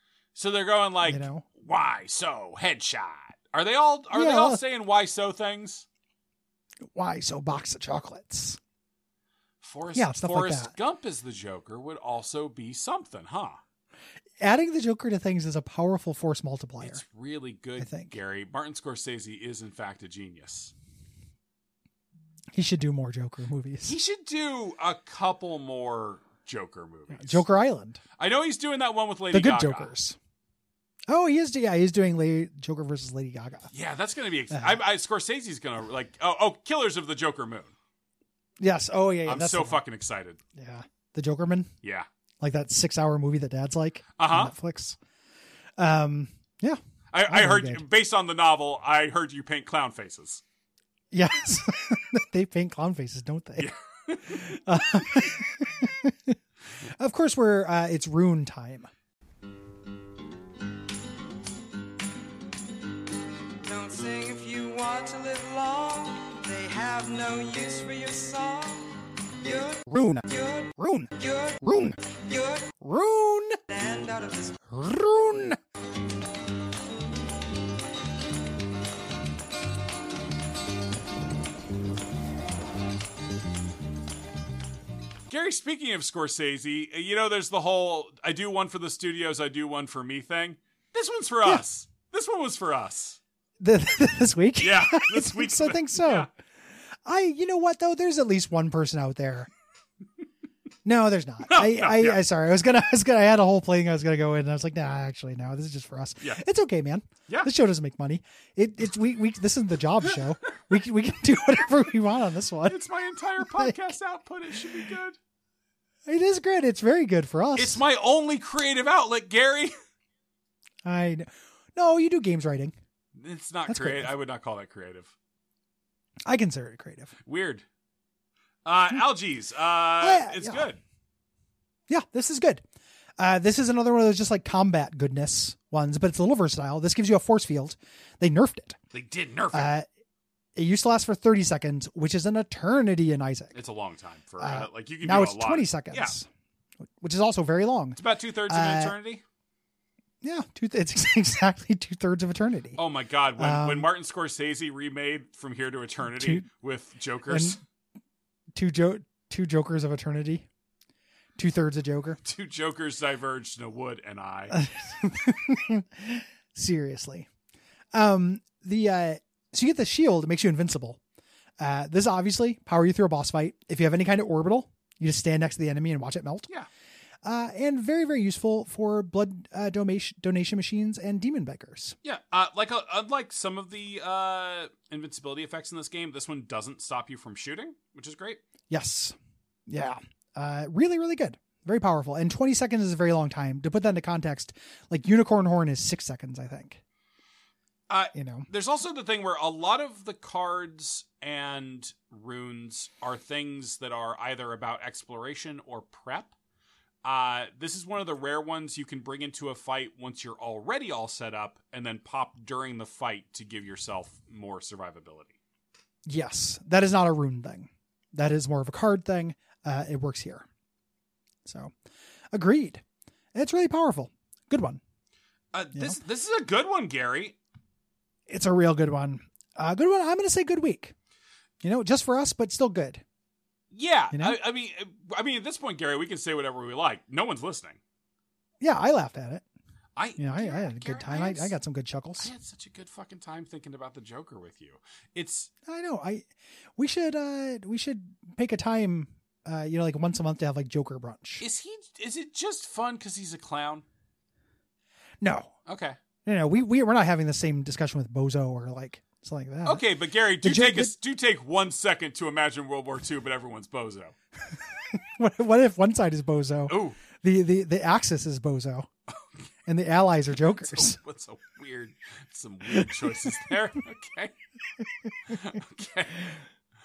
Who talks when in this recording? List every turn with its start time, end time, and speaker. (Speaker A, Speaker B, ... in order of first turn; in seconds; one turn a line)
Speaker A: 0.3-5.9
Speaker B: 1.1-1.4
Speaker B: 4.1-4.6
Speaker B: 6.9-8.6
Speaker A: 9.6-13.6
Speaker B: 9.9-10.7
Speaker B: 14.4-17.0
Speaker A: 16.8-20.7
Speaker B: 17.8-18.1
Speaker B: 22.5-23.9
Speaker A: 23.8-27.4
Speaker B: 27.1-28.0
Speaker A: 28.2-29.9
Speaker B: 29.3-30.2
Speaker B: 31.1-33.7
Speaker A: 33.7-37.7
Speaker B: 34.5-34.8
Speaker B: 38.6-39.8
Speaker A: 39.2-40.4
Speaker B: 40.5-41.7
Speaker B: 42.4-45.0
Speaker A: 44.2-44.5
Speaker B: 45.8-47.8
Speaker A: 47.1-50.4
Speaker B: 51.1-53.7
Speaker A: 53.6-54.5
Speaker B: 54.2-58.9
Speaker C: 63.6-72.8
Speaker B: 69.9-71.1
Speaker B: 71.6-72.0
Speaker B: 72.8-73.6
Speaker C: 73.7-74.6
Speaker B: 74.7-75.6
Speaker A: 85.3-93.2
Speaker B: 93.6-96.3
Speaker A: 94.6-96.3
Speaker B: 97.0-99.5
Speaker B: 100.8-112.8
Speaker A: 101.5-102.2
Speaker A: 112.7-115.2
Speaker B: 113.4-113.8
Speaker B: 116.0-117.8
Speaker A: 117.5-119.7
Speaker B: 120.8-122.8
Speaker A: 123.2-125.1
Speaker B: 123.7-124.1
Speaker B: 126.2-127.1
Speaker A: 127.2-127.6
Speaker A: 128.6-130.8
Speaker B: 130.0-130.7
Speaker B: 131.9-132.6
Speaker B: 133.2-138.8
Speaker A: 138.9-139.7
Speaker B: 139.5-139.9
Speaker B: 140.6-143.6
Speaker A: 143.5-146.1
Speaker B: 144.4-146.3
Speaker B: 147.0-148.9
Speaker A: 148.0-149.2
Speaker B: 150.2-152.8
Speaker A: 152.8-157.6
Speaker B: 153.4-153.9
Speaker B: 156.1-156.4
Speaker B: 157.3-157.6
Speaker B: 158.5-160.4
Speaker B: 161.4-162.2
Speaker A: 162.2-164.6
Speaker B: 164.5-167.3
Speaker B: 167.9-171.0
Speaker B: 171.6-176.5
Speaker B: 177.2-181.9
Speaker A: 182.0-188.4
Speaker B: 188.7-189.2
Speaker B: 189.7-196.8
Speaker A: 197.9-206.3
Speaker B: 198.1-198.5
Speaker A: 207.0-215.4
Speaker B: 216.1-220.4
Speaker B: 221.4-221.7
Speaker B: 222.3-222.8
Speaker B: 223.3-224.8
Speaker A: 225.5-227.4
Speaker B: 228.3-230.9
Speaker B: 231.6-233.0
Speaker A: 233.7-237.8
Speaker B: 234.1-234.4
Speaker B: 238.6-239.4
Speaker A: 239.9-241.5
Speaker B: 240.2-242.3
Speaker A: 242.2-245.5
Speaker B: 245.7-251.4
Speaker A: 251.4-253.8
Speaker B: 255.2-255.5
Speaker A: 255.7-256.0
Speaker B: 256.2-259.8
Speaker A: 259.6-264.1
Speaker B: 260.4-260.9
Speaker B: 264.9-268.9
Speaker A: 266.7-267.0
Speaker B: 269.6-271.0
Speaker A: 270.4-274.3
Speaker A: 275.3-276.2